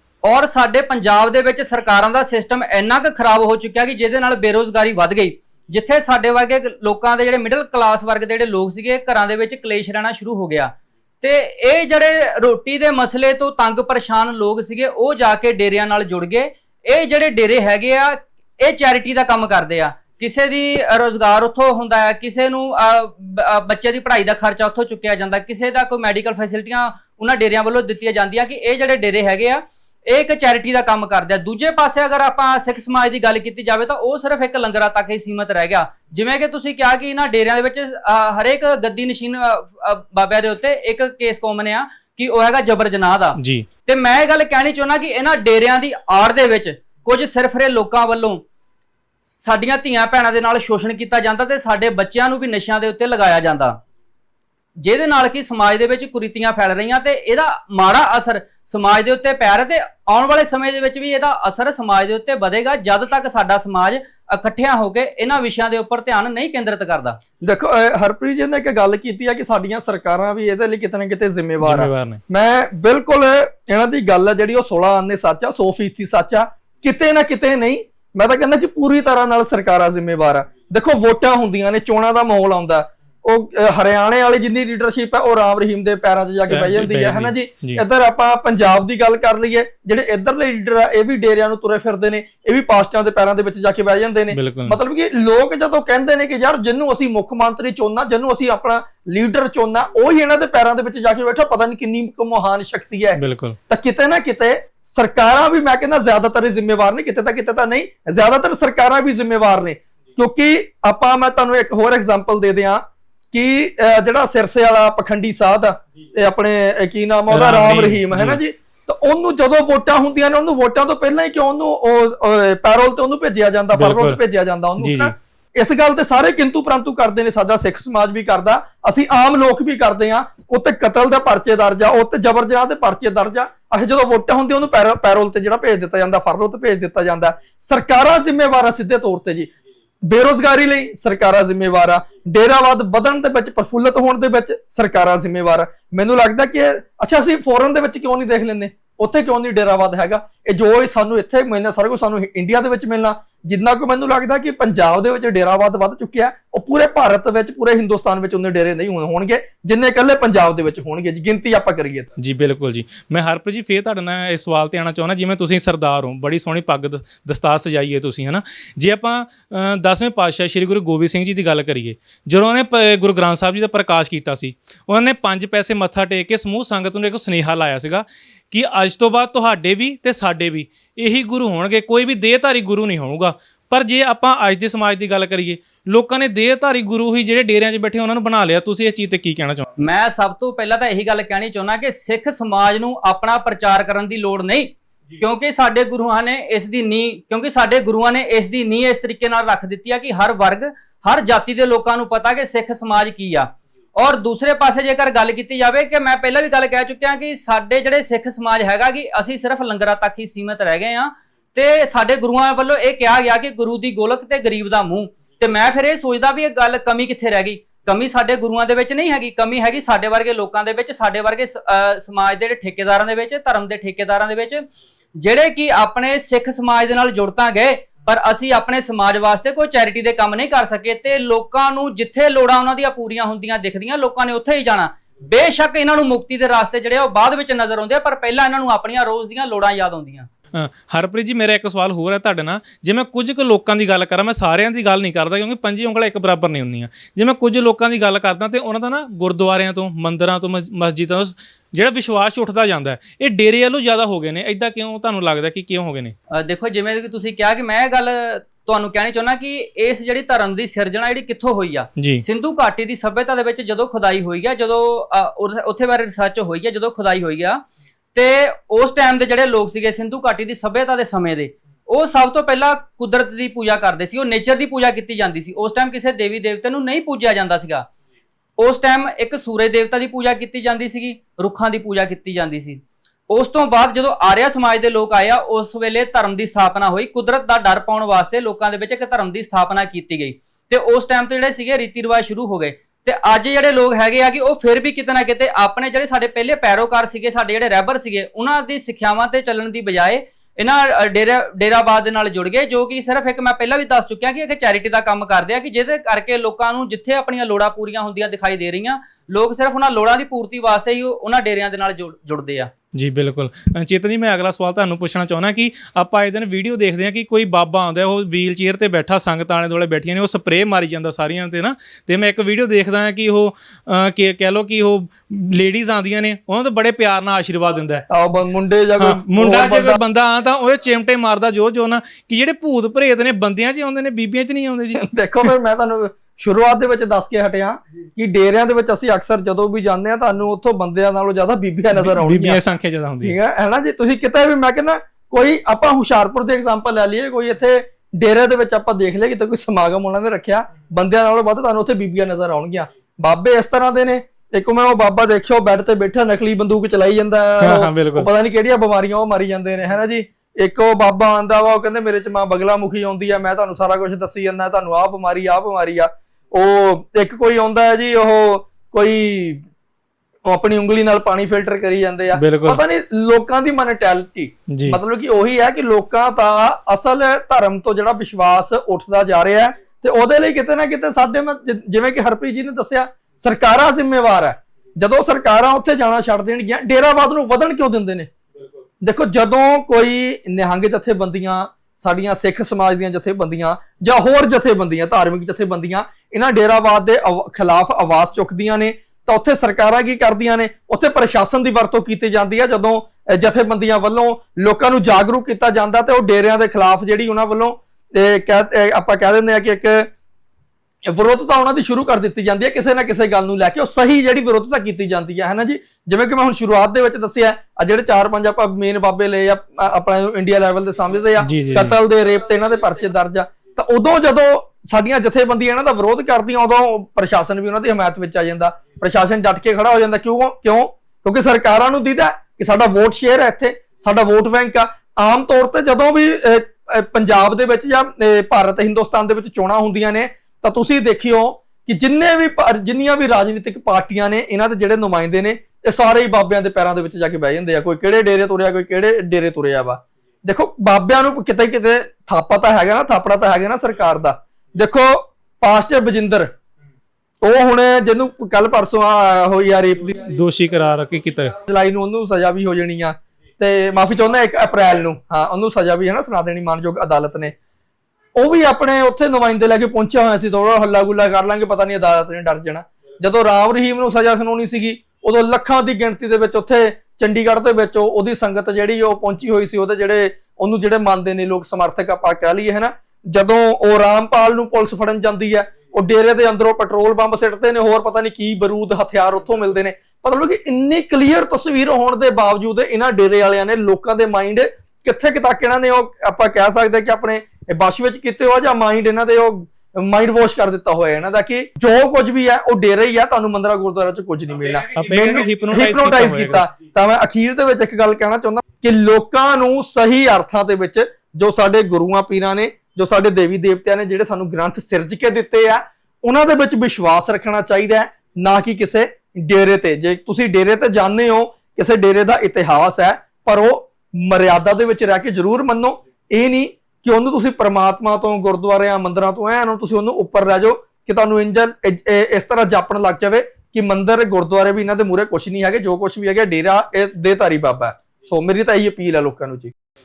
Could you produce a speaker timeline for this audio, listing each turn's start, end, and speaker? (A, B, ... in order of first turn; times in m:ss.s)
0:00.2-0:48.4 A
0:43.4-0:43.7 B
0:49.3-0:53.8 A
0:54.8-1:07.2 A
1:07.4-2:19.5 C
1:11.6-1:12.2 B
1:26.5-1:27.8 B
1:34.3-1:34.8 B
1:43.2-1:43.6 B
1:57.3-1:58.4 B
2:03.7-2:04.2 B
2:04.8-2:05.1 B
2:20.0-2:42.1 C
2:42.2-3:09.6 B
3:09.8-3:44.6 A
3:45.2-4:00.3 A
4:00.5-4:16.1 B
4:16.4-4:27.6 A
4:22.0-4:22.2 B
4:28.1-4:37.8 A
4:38.6-5:12.7 A
5:12.9-5:28.0 B
5:28.1-5:30.0 C
5:29.0-5:35.0 B
5:35.0-5:42.6 C
5:42.0-5:43.4 B
5:43.2-6:09.6 C
5:57.6-5:58.3 B
6:10.4-6:28.3 C
6:12.3-6:12.8 B
6:14.7-6:15.0 B
6:29.0-6:50.1 C
6:51.0-7:36.5 C
7:01.4-7:01.9 B
7:37.4-7:40.3 C
7:40.2-7:41.6 B
7:41.6-7:47.5 C
7:48.4-8:59.7 C
8:24.9-8:26.6 B